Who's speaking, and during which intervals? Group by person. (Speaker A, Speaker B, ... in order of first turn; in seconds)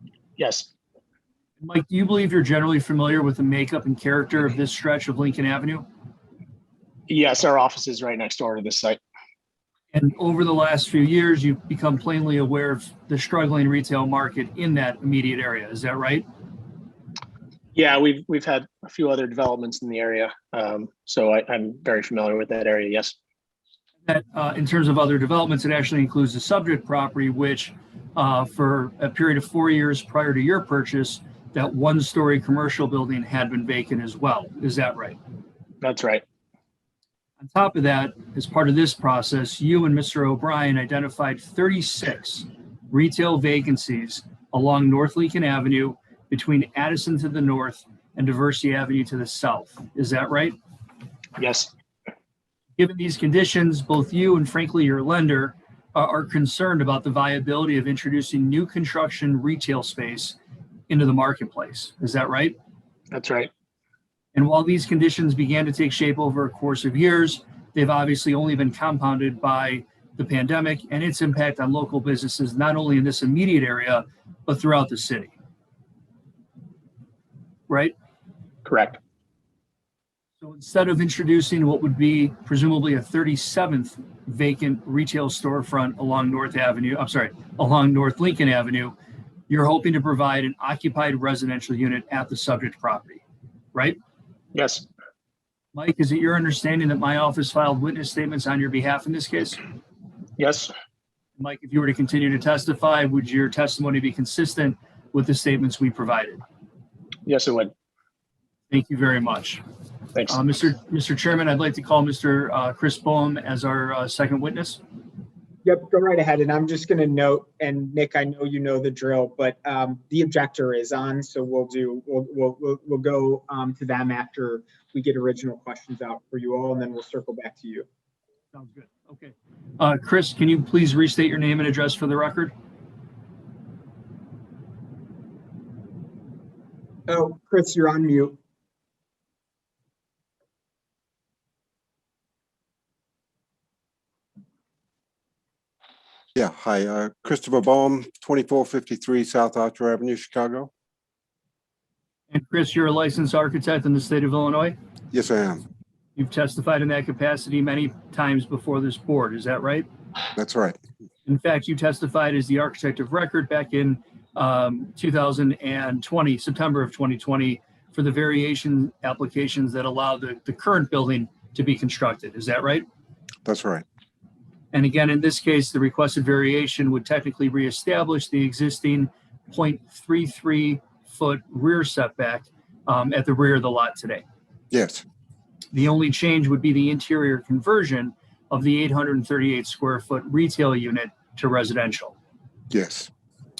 Speaker A: 0.4-0.7, 7.1-9.0, 17.8-23.2, 35.8-36.2, 51.4-51.7, 63.1-63.5, 78.7-79.0, 94.5-94.9, 100.4-100.7, 107.3-107.7
Speaker B: 1.6-5.8, 9.9-16.3, 24.1-35.2, 37.4-50.6, 52.8-60.4, 60.9-62.6, 64.3-75.3, 77.7-77.9, 80.4-89.0, 89.5-93.2, 95.8-99.6, 101.4-106.4, 108.7-109.6, 110.3-114.8, 128.5-132.5, 152.3-154.8, 156.2-159.9, 161.3-172.9, 174.7-184.2, 185.7-192.2
Speaker C: 115.7-127.9, 137.1-138.4
Speaker D: 146.3-150.7, 155.1-155.6, 160.3-160.8, 173.4-173.8, 184.7-185.0, 192.7-193.1